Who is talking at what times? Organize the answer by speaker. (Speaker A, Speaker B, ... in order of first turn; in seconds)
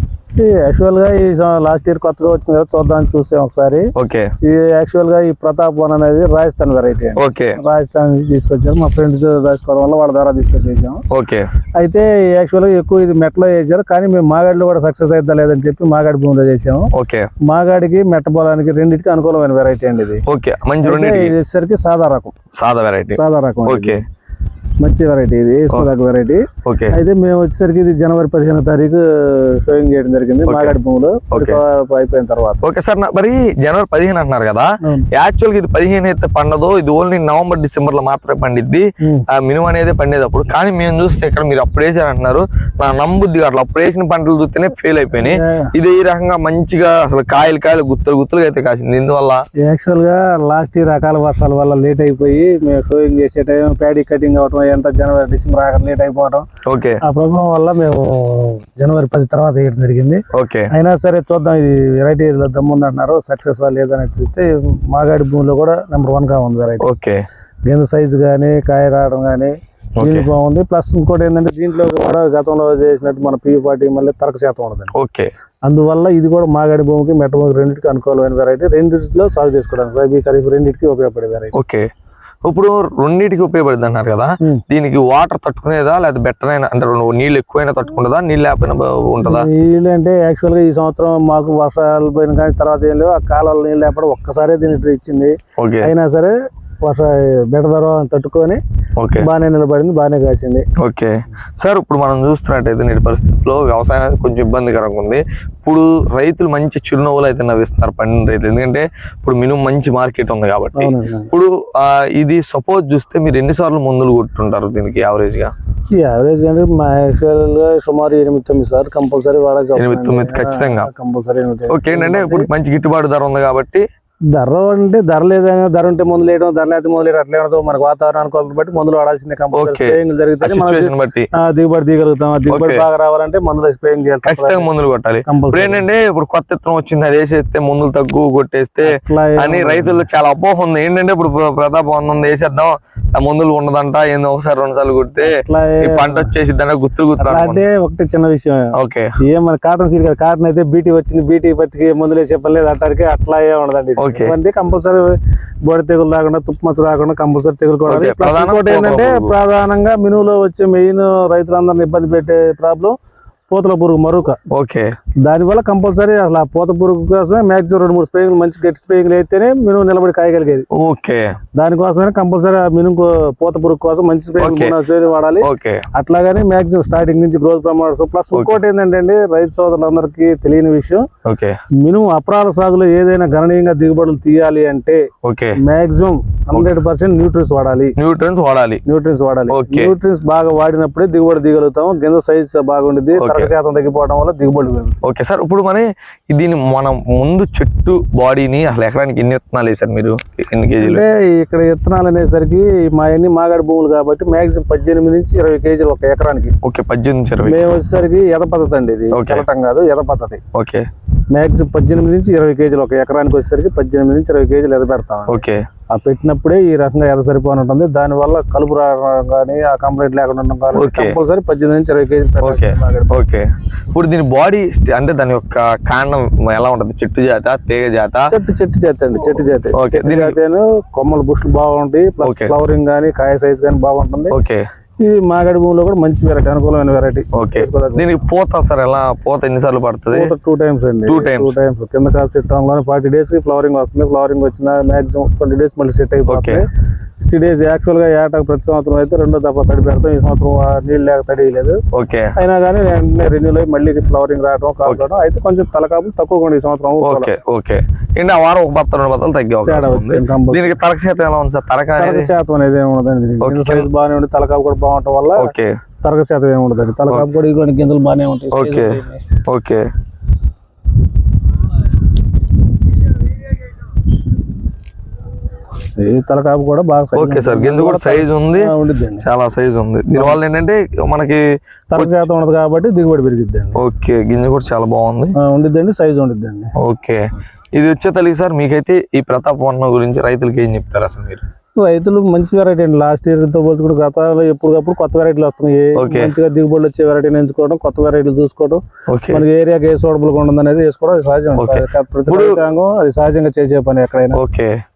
Speaker A: 0.3-11.0, 11.8-16.9, 17.4-20.2, 20.8-22.3, 23.1-24.0, 24.8-32.6, 45.2-45.7, 49.6-56.5, 57.0-66.8, 67.7-74.9, 75.7-81.5, 89.2-98.6, 99.2-100.7, 110.8-111.3, 115.9-122.5, 124.3-134.7, 135.3-135.8, 138.8-140.0, 145.2-146.3, 147.2-162.9, 163.5-164.4, 165.2-170.7, 171.6-181.1, 181.8-185.0, 185.6-187.9, 188.8-195.0, 200.8-206.5, 207.4-210.4, 211.3-223.1, 228.3-234.3, 235.0-238.1, 240.1-246.7, 247.2-251.8, 252.3-257.3, 259.6-260.8, 262.0-269.2, 276.0-279.2, 280.1-280.4, 281.9-283.8, 285.4-286.7, 291.8-298.8, 299.3-304.4
Speaker B: 4.0-4.3, 7.2-7.6, 11.1-11.5, 16.9-17.3, 20.3-21.3, 22.5-24.0, 26.6-27.0, 30.4-30.8, 31.3-31.6, 32.6-49.4, 56.6-57.0, 60.3-60.7, 66.8-67.2, 70.0-70.3, 74.9-75.3, 81.5-81.9, 82.4-89.5, 95.6-95.9, 99.0-99.3, 100.8-115.5, 119.8-120.9, 121.7-123.8, 129.5-131.3, 132.5-132.8, 134.2-147.6, 148.8-149.1, 154.0-154.3, 157.9-159.3, 164.5-164.9, 170.7-171.3, 174.4-174.8, 175.4-175.8, 178.3-178.6, 181.2-181.6, 185.2-185.6, 188.0-188.8, 189.5-189.9, 193.2-193.5, 195.0-201.0, 206.6-207.6, 209.1-209.4, 210.5-210.8, 215.3-215.6, 220.7-221.2, 222.4-228.2, 229.7-230.3, 232.2-232.5, 234.3-234.6, 237.3-240.3, 241.1-241.5, 246.3-246.6, 251.9-252.3, 257.0-262.3, 263.4-263.9, 265.4-265.7, 268.5-269.9, 277.1-281.4, 281.9-282.2, 283.8-285.3, 286.8-287.2, 287.8-291.4, 296.0-296.3, 299.1-299.4, 301.6-302.6, 304.3-304.7